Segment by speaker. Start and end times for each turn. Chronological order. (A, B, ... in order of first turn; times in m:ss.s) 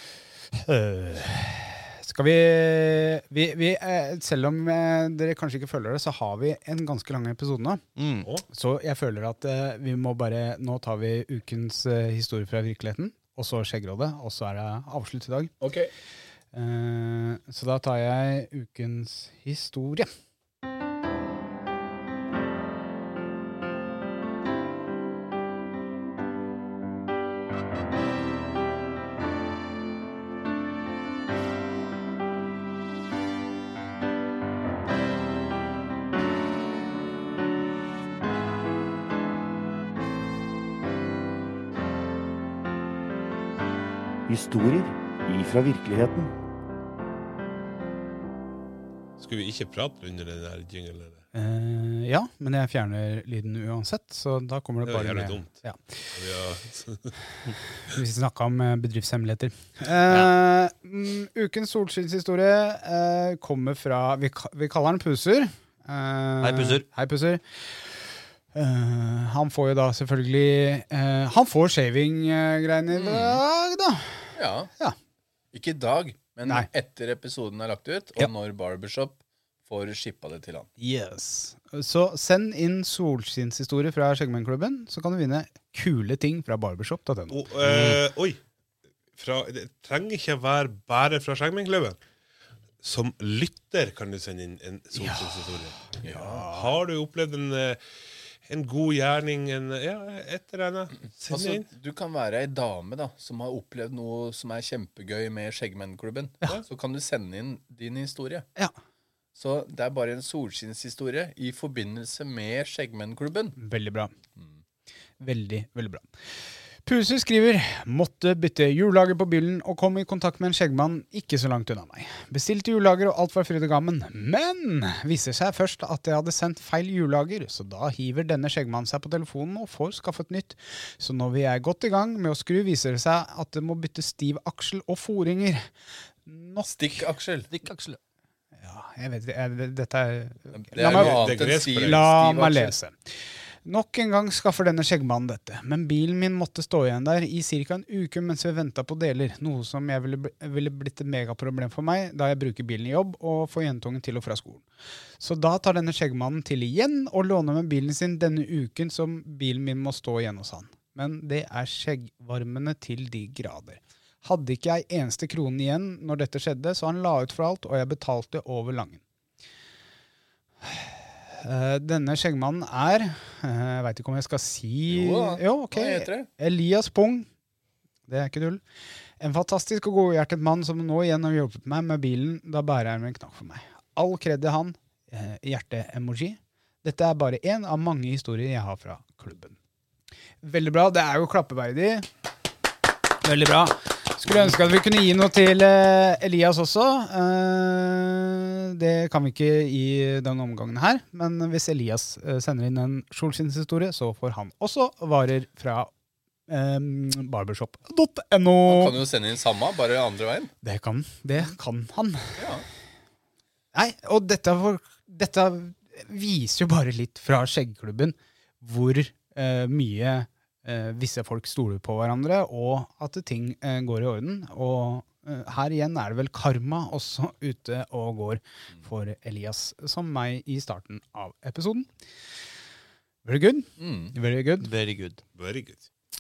0:00.5-0:07.8 A
0:08.0-0:08.3 B
0:08.5-0:15.5 A
0:15.6-0:15.9 C
0:16.5-0:20.1 A
0:44.3-0:46.3 D
0:49.2-0:51.2 E
0:51.3-0:56.0 A
0:54.8-0:57.1 E
0:57.9-1:07.6 A
1:06.4-1:06.9 B
1:08.5-1:14.2 A
1:12.9-1:13.4 C
1:14.4-1:14.7 C
1:15.5-1:20.7 C
1:20.8-1:27.4 A
1:27.3-1:28.4 E
1:27.6-1:28.0 B
1:29.2-1:32.0 E
1:32.8-1:35.8 E
1:35.0-1:35.3 A
1:36.0-1:36.4 C
1:36.0-1:36.7 A
1:36.4-1:37.8 E
1:38.4-1:41.7 E
1:41.3-1:48.5 C
1:49.4-1:53.6 C
1:53.6-1:54.1 A
1:55.2-1:56.1 A
1:56.9-2:15.7 A
2:16.2-2:17.0 A
2:16.7-2:17.5 C
2:17.5-2:18.0 B
2:18.6-2:23.1 A
2:20.5-2:22.8 C
2:20.8-2:22.1 E
2:23.6-2:34.6 A
2:35.2-2:49.0 A
2:50.6-2:57.3 A
2:54.9-2:56.3 C
2:58.1-2:58.6 A
2:59.2-3:09.6 A
3:10.4-3:12.1 A
3:13.2-3:25.9 A
3:26.5-3:29.0 A
3:28.7-3:30.5 C
3:30.6-3:32.5 A
3:32.4-3:32.6 C
3:33.7-3:51.9 A
3:53.2-3:54.7 A
3:53.8-3:54.2 C
3:54.6-3:55.2 B
3:55.4-3:55.8 E